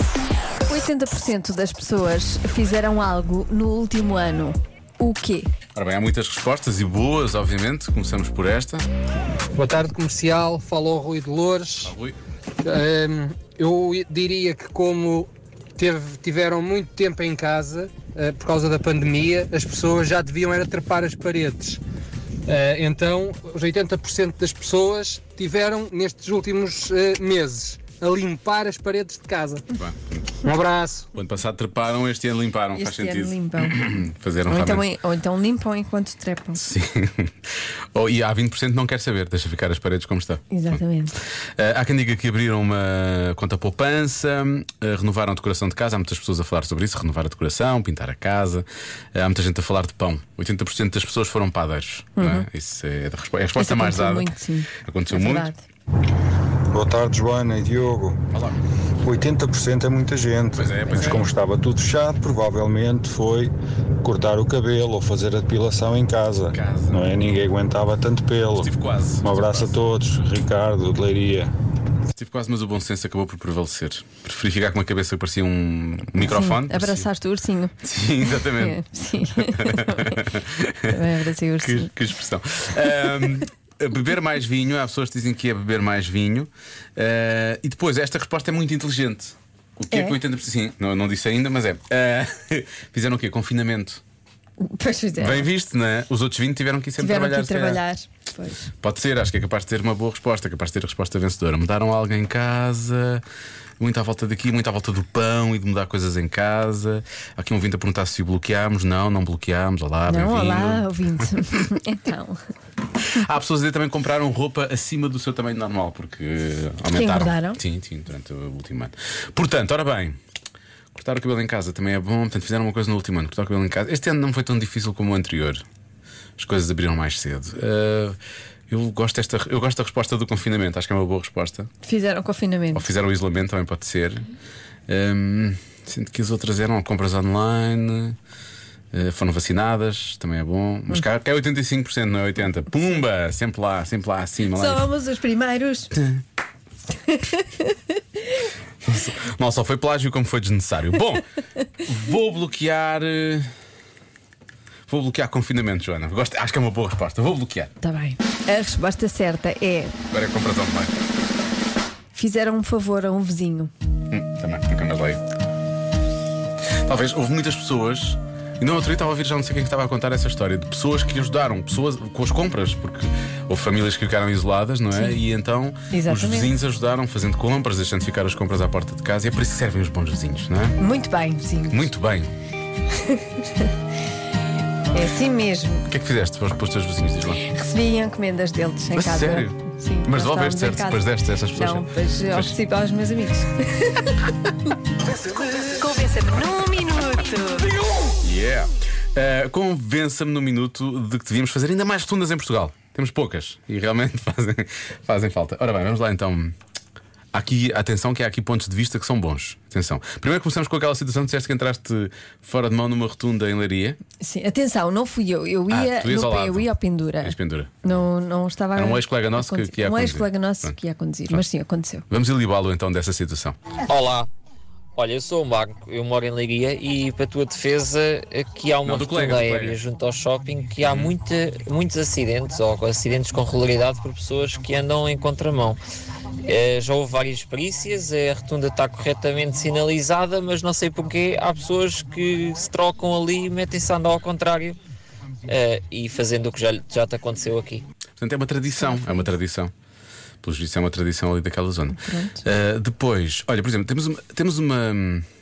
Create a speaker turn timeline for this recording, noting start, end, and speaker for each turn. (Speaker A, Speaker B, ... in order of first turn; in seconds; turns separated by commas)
Speaker A: 0.7-5.5, Speaker B: 5.8-8.9, Speaker C: 9.6-11.9, Speaker B: 11.8-12.2, Speaker C: 12.6-21.8, Speaker C: 22.5-29.6, Speaker B: 29.7-30.3, Speaker C: 30.4-31.1, Speaker B: 31.1-34.9, Speaker A: 32.7-33.8, Speaker A: 34.5-36.6, Speaker B: 36.6-37.3, Speaker B: 37.9-40.8, Speaker A: 40.5-41.1, Speaker B: 41.6-54.3, Speaker A: 52.2-52.5, Speaker A: 53.6-55.6, Speaker B: 54.8-55.5, Speaker D: 56.7-58.2, Speaker B: 58.3-58.6, Speaker D: 59.0-71.5, Speaker B: 60.5-61.3, Speaker A: 60.9-61.2, Speaker B: 66.5-67.0, Speaker B: 68.6-69.8, Speaker B: 72.1-77.1, Speaker A: 76.2-77.8, Speaker B: 77.8-78.8, Speaker A: 78.4-80.3, Speaker B: 79.4-81.0, Speaker A: 80.9-81.9, Speaker B: 81.6-94.0, Speaker A: 89.9-90.2, Speaker A: 94.6-95.5, Speaker B: 95.2-97.8, Speaker A: 97.0-98.7, Speaker B: 98.8-103.2, Speaker B: 103.8-110.9, Speaker A: 110.1-112.4, Speaker B: 113.1-120.2, Speaker A: 116.9-117.6, Speaker B: 120.9-125.6, Speaker B: 126.4-128.2, Speaker B: 128.7-131.7, Speaker A: 131.8-132.9, Speaker B: 132.7-134.3, Speaker B: 134.9-138.2, Speaker B: 138.9-144.9, Speaker A: 144.5-145.9, Speaker A: 147.1-147.8, Speaker B: 148.8-151.2, Speaker B: 151.8-153.5, Speaker B: 154.9-157.7, Speaker A: 157.8-159.9, Speaker B: 160.1-160.9, Speaker A: 162.1-163.7, Speaker B: 164.1-165.2, Speaker B: 166.8-180.8, Speaker A: 175.9-176.5, Speaker A: 180.8-181.9, Speaker B: 181.7-182.3, Speaker A: 182.9-183.7, Speaker A: 184.9-185.9, Speaker B: 185.9-187.4, Speaker A: 187.4-194.2, Speaker B: 188.9-192.6, Speaker A: 195.2-197.7, Speaker B: 198.2-206.6, Speaker B: 207.3-214.0, Speaker A: 214.2-222.1, Speaker B: 215.7-216.7, Speaker B: 217.2-217.8, Speaker B: 218.8-220.8, Speaker B: 222.1-223.6, Speaker E: 223.9-224.3, Speaker E: 225.0-235.8, Speaker B: 228.8-229.8, Speaker B: 230.8-231.1, Speaker E: 236.4-244.8, Speaker E: 245.5-247.8, Speaker B: 248.2-249.7, Speaker A: 248.9-249.2, Speaker B: 250.4-255.2, Speaker A: 251.9-252.4